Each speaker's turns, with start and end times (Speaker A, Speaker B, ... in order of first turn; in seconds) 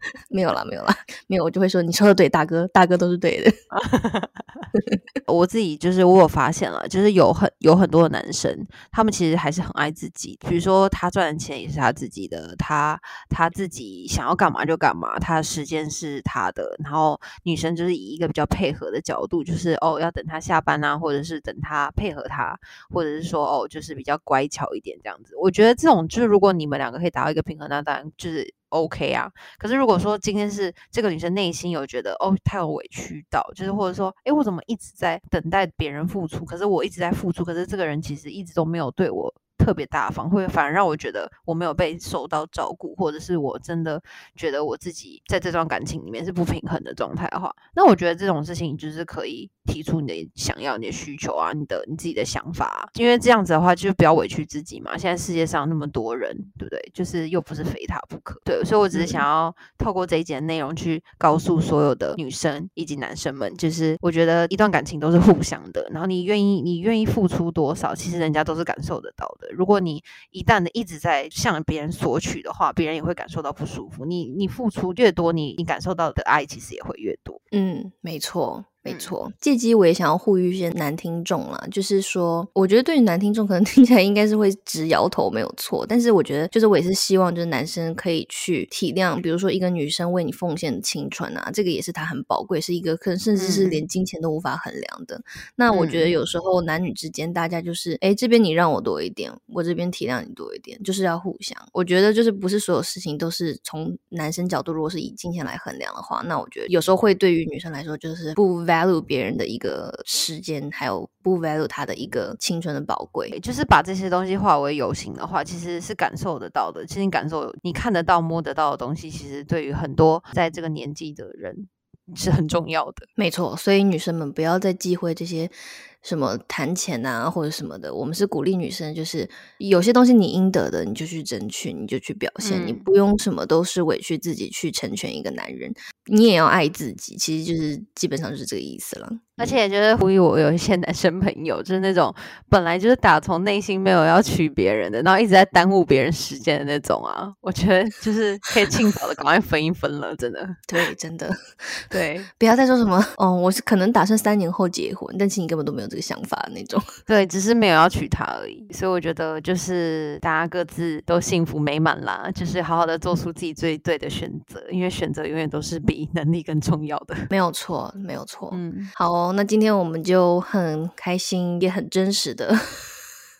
Speaker A: 0.3-3.5, 4.7-5.0, 58.9-59.2, 77.5-113.3, 123.2-139.5, 150.7-151.8, 152.4-156.8, 167.3-172.9
Speaker B: 3.7-4.6, 5.3-77.4, 78.8-79.1, 93.3-93.8, 95.7-96.1, 113.3-123.1, 132.4-132.8, 139.4-150.6, 151.9-152.3, 157.1-167.3, 168.5-168.9